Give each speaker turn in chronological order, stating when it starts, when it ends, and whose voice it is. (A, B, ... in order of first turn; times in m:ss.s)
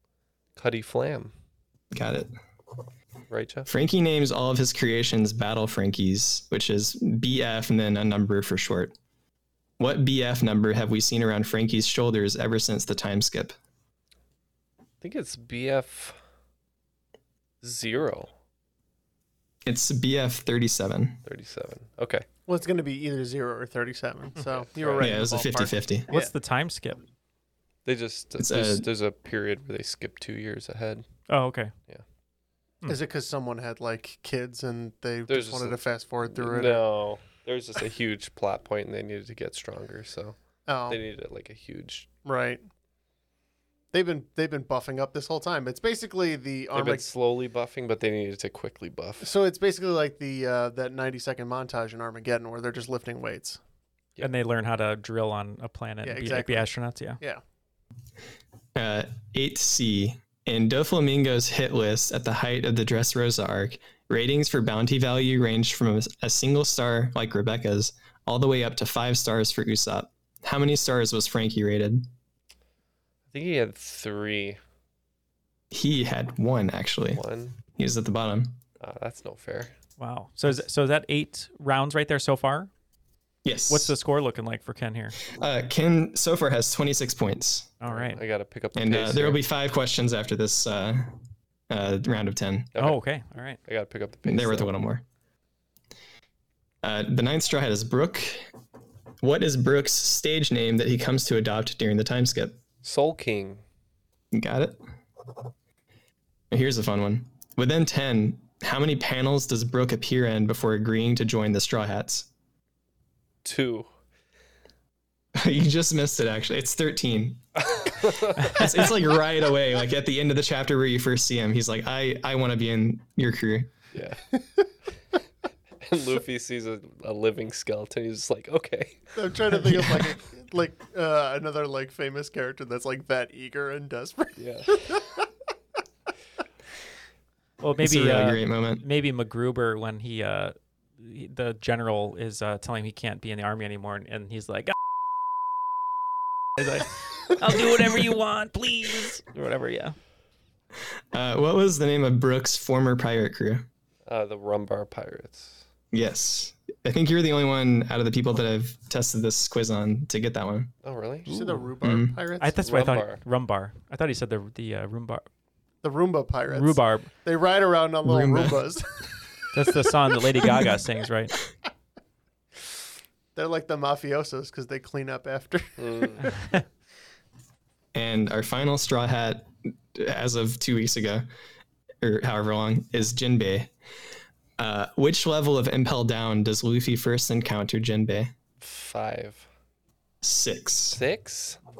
0:00.6-0:01.3 A
0:01.9-0:02.3 B
0:03.3-0:03.7 A
0:03.7-0:08.9 B
0:09.8-0:13.5 B
0:15.0-0:16.2 A
0:17.6-0:18.3 A
0:19.6-0:21.2 B
0:21.2-0:22.2 A
0:22.5-0:26.3 C
0:24.4-0:25.2 A
0:25.0-0:26.1 B
0:26.1-0:27.0 D
0:27.8-0:31.0 A
0:28.4-0:28.9 B
0:31.3-0:31.7 D
0:32.8-0:36.8 C
0:35.3-0:40.4 A
0:40.7-0:41.0 C
0:40.9-0:42.1 A
0:42.2-0:42.6 C
0:43.9-0:47.0 C
0:46.7-0:49.3 A
0:49.2-0:53.6 C
0:54.2-0:57.2 D
0:56.0-0:57.4 C
0:58.7-1:12.1 B
1:13.3-1:14.6 A
1:15.7-1:17.2 B
1:17.1-1:17.6 A
1:17.7-1:18.6 B
1:18.8-1:19.7 A
1:20.0-1:22.7 D
1:23.4-1:23.9 B
1:23.7-1:25.2 D
1:25.3-1:27.7 B
1:27.8-1:28.2 D
1:27.8-1:29.4 A
1:28.7-1:31.2 B
1:31.7-1:32.7 B
1:32.7-1:33.0 A
1:32.8-1:33.6 D
1:33.6-1:34.7 A
1:34.2-1:35.0 B
1:36.8-1:38.5 B
1:39.2-1:42.6 B
1:42.8-1:43.6 A
1:44.3-1:44.8 B
1:46.5-1:52.3 B
1:53.4-1:53.9 A
1:55.4-1:57.4 B
1:57.6-1:58.9 A
1:58.5-2:03.7 B
2:03.9-2:04.2 A
2:05.8-2:10.0 A
2:09.2-2:15.2 C
2:14.4-2:14.8 A
2:17.6-2:24.7 D
2:17.8-2:18.8 B
2:26.6-2:30.0 D
2:31.1-2:33.7 B
2:34.1-2:35.7 A
2:35.9-2:40.7 B
2:40.8-2:41.3 A
2:41.3-2:41.6 D
2:41.3-2:42.6 C
2:41.8-2:42.2 B
2:42.4-2:45.2 D
2:42.6-2:43.2 A
2:45.8-2:49.1 C
2:46.5-2:47.1 D
2:48.0-2:48.6 B
2:49.5-2:51.3 D
2:53.3-2:56.2 C
2:55.8-2:56.3 A
2:56.3-2:56.6 D
2:57.9-3:01.3 B
3:02.0-3:03.7 B
3:04.6-3:08.3 B
3:08.6-3:09.5 A
3:10.2-3:11.0 B
3:10.9-3:11.6 A